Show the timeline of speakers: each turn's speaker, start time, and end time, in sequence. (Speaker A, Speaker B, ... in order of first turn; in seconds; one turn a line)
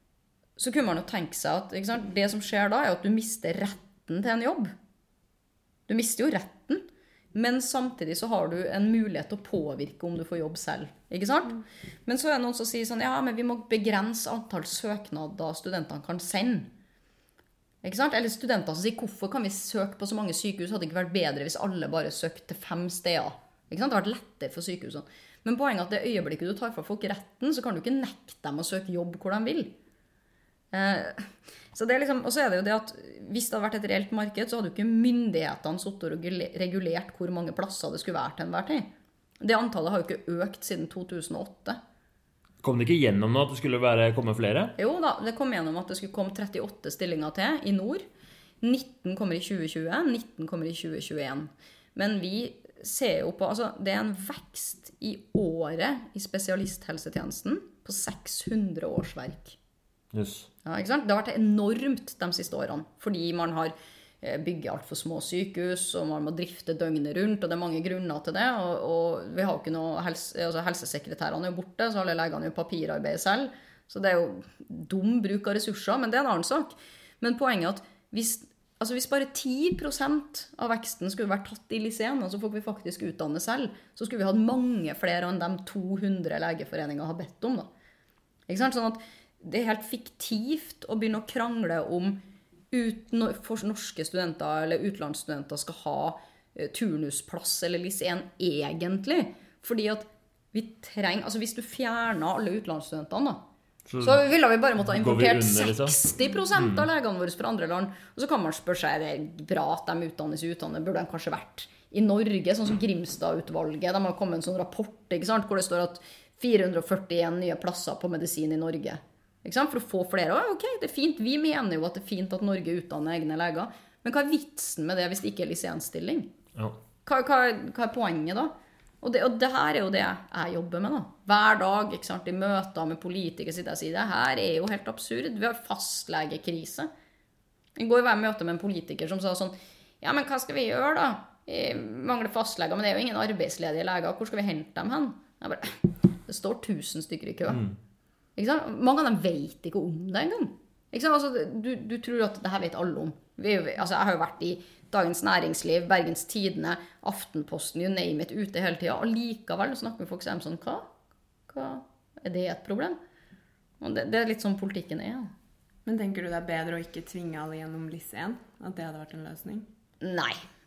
Speaker A: 0.6-4.7
Speaker A: 5.9-16.7
Speaker A: 17.8-29.7
Speaker A: 30.7-41.8
Speaker B: 42.6-44.7
Speaker A: 44.8-48.0
Speaker A: 48.6-59.6
Speaker B: 60.1-60.5
Speaker A: 60.6-87.7
Speaker A: 88.5-92.2
Speaker A: 92.7-103.4
Speaker B: 103.9-104.2
Speaker A: 104.0-126.3
Speaker B: 104.8-106.0
Speaker B: 106.6-106.9
Speaker A: 127.0-136.9
Speaker A: 137.8-147.6
Speaker B: 147.5-147.8
Speaker A: 148.4-160.9
Speaker A: 161.5-163.0
Speaker A: 163.8-165.3
Speaker C: 165.9-169.7
Speaker A: 170.0-170.4